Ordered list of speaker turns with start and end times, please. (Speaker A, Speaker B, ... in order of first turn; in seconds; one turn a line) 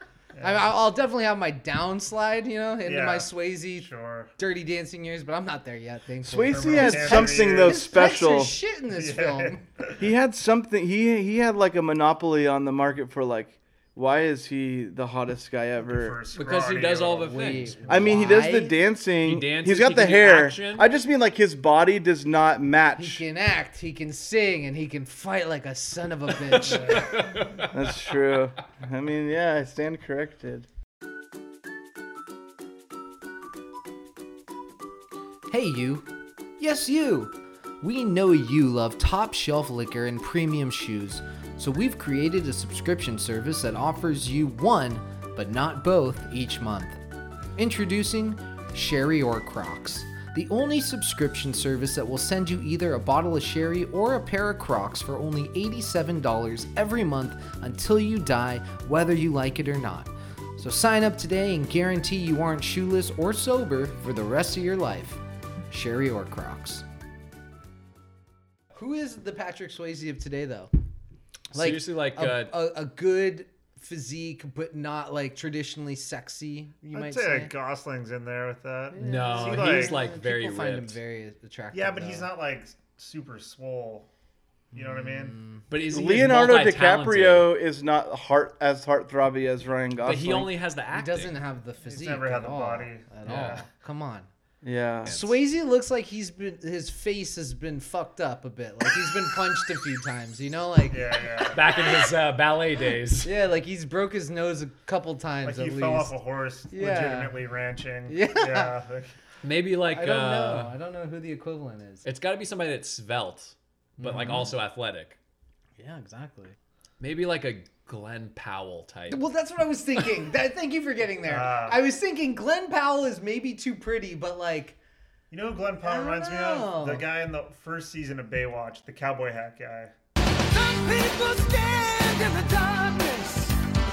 Speaker A: 0.3-0.7
Speaker B: 0.4-3.9
Speaker A: 2.9-4.3
Speaker B: 4.4-9.6
Speaker C: 6.2-8.6
Speaker A: 6.5-7.9
Speaker A: 8.9-10.0
Speaker C: 10.0-16.2
Speaker A: 15.8-17.7
Speaker D: 16.4-18.3
Speaker B: 17.2-18.8
Speaker C: 17.9-23.2
Speaker D: 19.2-20.9
Speaker B: 23.0-27.1
Speaker D: 26.5-27.7
Speaker C: 27.6-30.7
Speaker B: 35.5-36.1
Speaker B: 36.6-47.0
Speaker B: 47.6-65.2
Speaker B: 65.7-66.8
Speaker B: 68.8-70.7
Speaker D: 71.5-72.5
Speaker B: 71.5-77.5
Speaker A: 76.9-80.0
Speaker B: 78.9-82.3
Speaker D: 79.0-81.0
Speaker A: 81.7-84.1
Speaker A: 84.7-85.4
Speaker B: 84.7-85.6
Speaker D: 85.7-87.5
Speaker C: 85.9-90.5
Speaker D: 90.0-91.4
Speaker B: 90.9-94.3
Speaker A: 91.8-93.7
Speaker D: 93.3-93.6
Speaker C: 94.6-95.2
Speaker D: 95.1-95.3
Speaker B: 95.1-101.0
Speaker A: 100.9-101.6
Speaker D: 101.5-103.3
Speaker B: 103.2-106.1
Speaker A: 105.4-109.1
Speaker B: 106.7-107.4
Speaker B: 108.1-108.7
Speaker D: 109.4-110.7
Speaker B: 109.9-112.1
Speaker D: 112.0-115.2
Speaker B: 114.0-114.5
Speaker B: 115.8-116.6
Speaker D: 117.0-119.2
Speaker B: 119.1-124.8
Speaker A: 121.2-121.8
Speaker A: 125.3-129.9
Speaker B: 125.8-127.1
Speaker E: 130.6-133.5